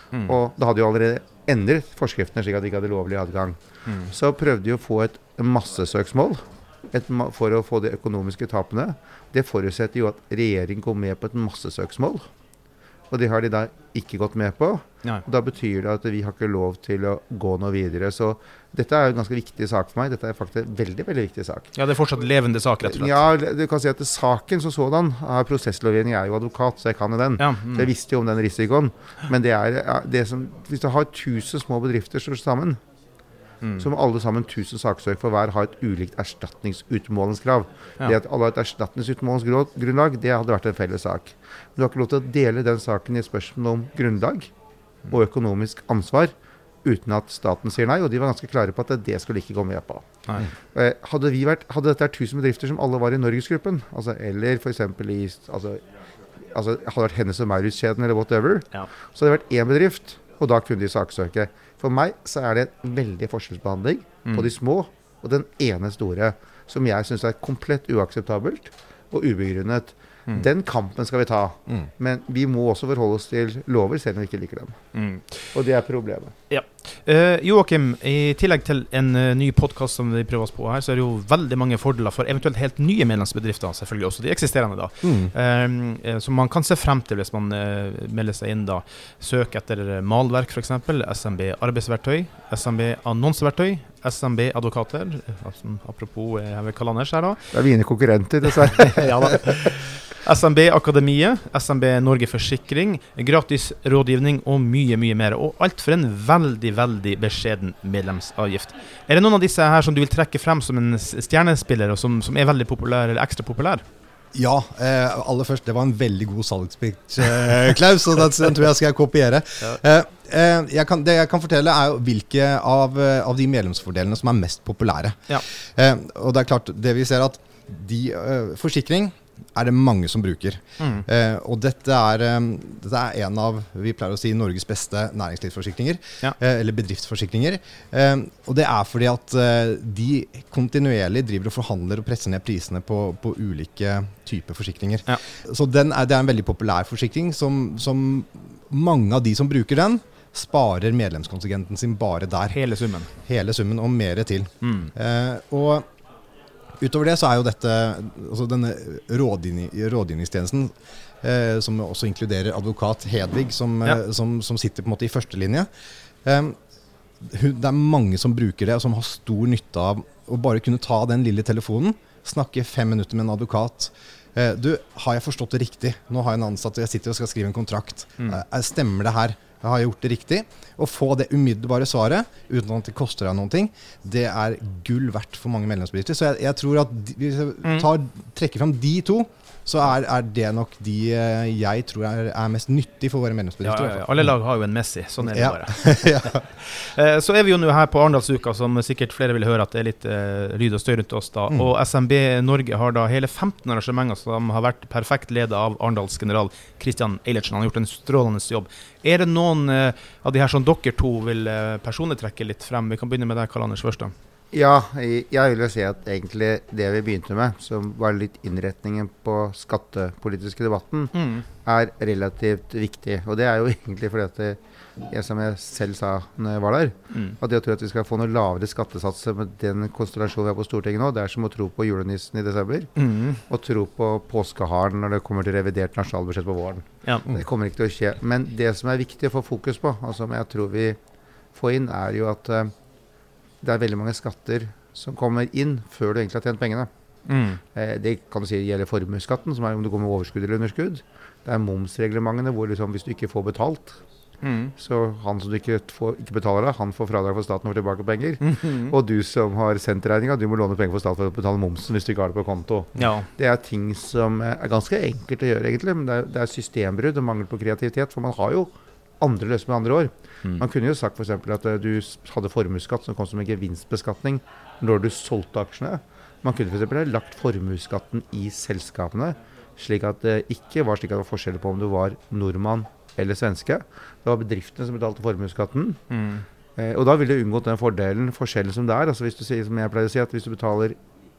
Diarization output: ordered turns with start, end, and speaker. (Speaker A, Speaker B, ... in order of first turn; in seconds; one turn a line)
Speaker A: 0.2-3.6
Speaker A: 4.1-12.2
Speaker A: 13.1-21.7
Speaker B: 21.7-23.2
Speaker A: 22.8-32.8
Speaker B: 27.4-27.9
Speaker B: 33.6-33.9
Speaker A: 33.8-44.5
Speaker A: 45.1-46.3
Speaker A: 46.8-50.0
Speaker A: 50.7-55.8
Speaker A: 56.5-74.8
Speaker B: 74.9-75.5
Speaker A: 75.5-76.3
Speaker B: 76.5-97.5
Speaker C: 85.0-85.3
Speaker A: 97.5-99.7
Speaker B: 98.8-113.8
Speaker C: 114.3-152.6
Speaker B: 130.8-131.1
Speaker B: 152.5-153.1
Speaker C: 153.2-155.8
Speaker B: 154.6-154.9
Speaker C: 156.8-165.7
Speaker C: 166.2-166.6
Speaker C: 167.2-194.1
Speaker B: 187.6-187.9
Speaker B: 193.6-214.1
Speaker C: 195.2-196.5
Speaker A: 214.5-221.1
Speaker B: 221.1-221.4
Speaker A: 221.6-224.6
Speaker A: 225.1-232.9
Speaker B: 232.9-233.4
Speaker A: 233.5-241.0
Speaker A: 241.5-242.7
Speaker A: 243.6-246.9
Speaker B: 247.3-247.6
Speaker A: 247.7-254.0
Speaker B: 254.4-254.7
Speaker A: 254.8-286.0
Speaker B: 258.4-258.9
Speaker B: 262.9-263.3
Speaker B: 286.1-286.4
Speaker A: 286.8-290.9